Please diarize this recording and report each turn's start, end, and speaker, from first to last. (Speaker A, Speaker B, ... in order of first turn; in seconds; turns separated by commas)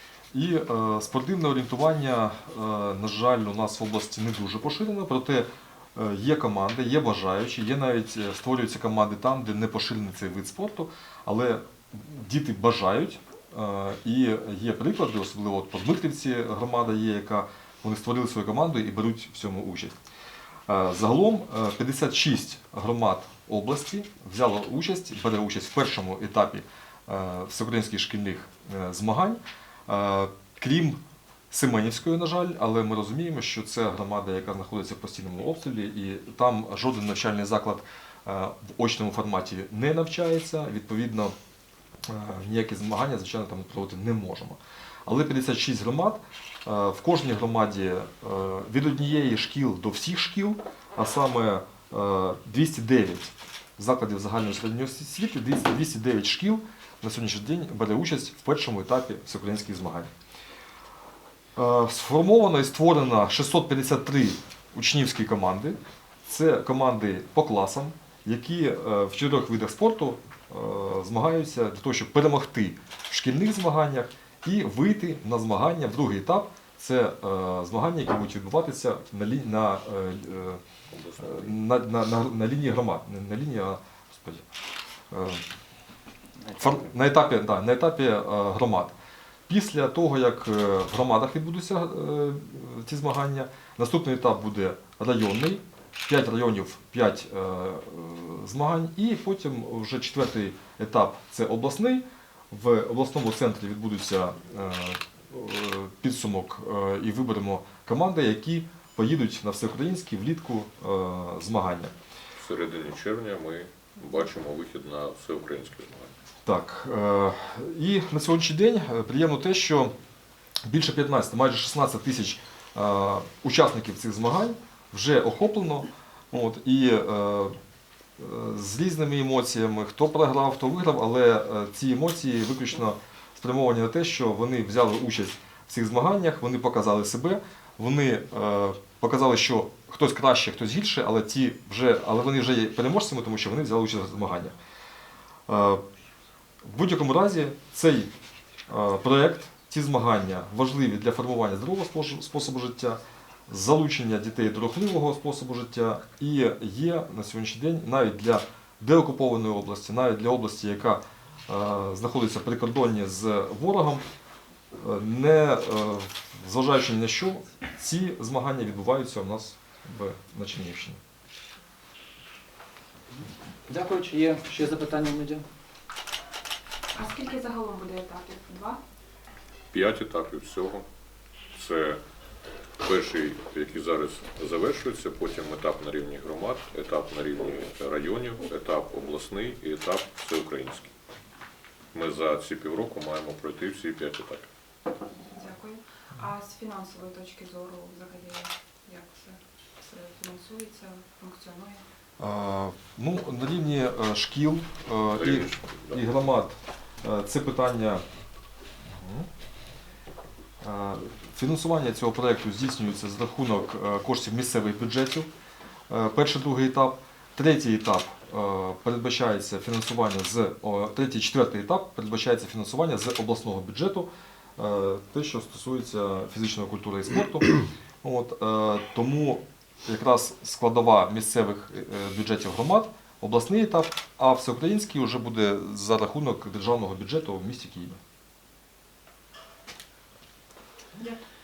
Speaker A: 0.3-19.9, Speaker A: 20.7-31.0, Speaker A: 31.5-41.3, Speaker A: 42.1-60.1, Speaker A: 61.5-80.6, Speaker B: 80.9-81.6, Speaker A: 81.2-84.4, Speaker A: 85.1-85.4, Speaker A: 86.6-88.9, Speaker A: 89.5-111.9, Speaker B: 112.3-116.1, Speaker A: 116.5-119.9, Speaker A: 120.7-127.5, Speaker A: 128.2-144.5, Speaker A: 145.5-145.8, Speaker A: 146.6-148.1, Speaker A: 148.7-164.0, Speaker A: 164.8-171.0, Speaker C: 173.2-175.4, Speaker D: 176.9-178.8, Speaker B: 179.7-180.8, Speaker B: 181.5-182.0, Speaker B: 182.8-190.9, Speaker B: 191.9-194.5, Speaker D: 195.3-201.8, Speaker A: 202.2-208.0, Speaker B: 205.1-206.0, Speaker A: 209.0-209.3, Speaker A: 210.6-215.3, Speaker A: 215.9-238.0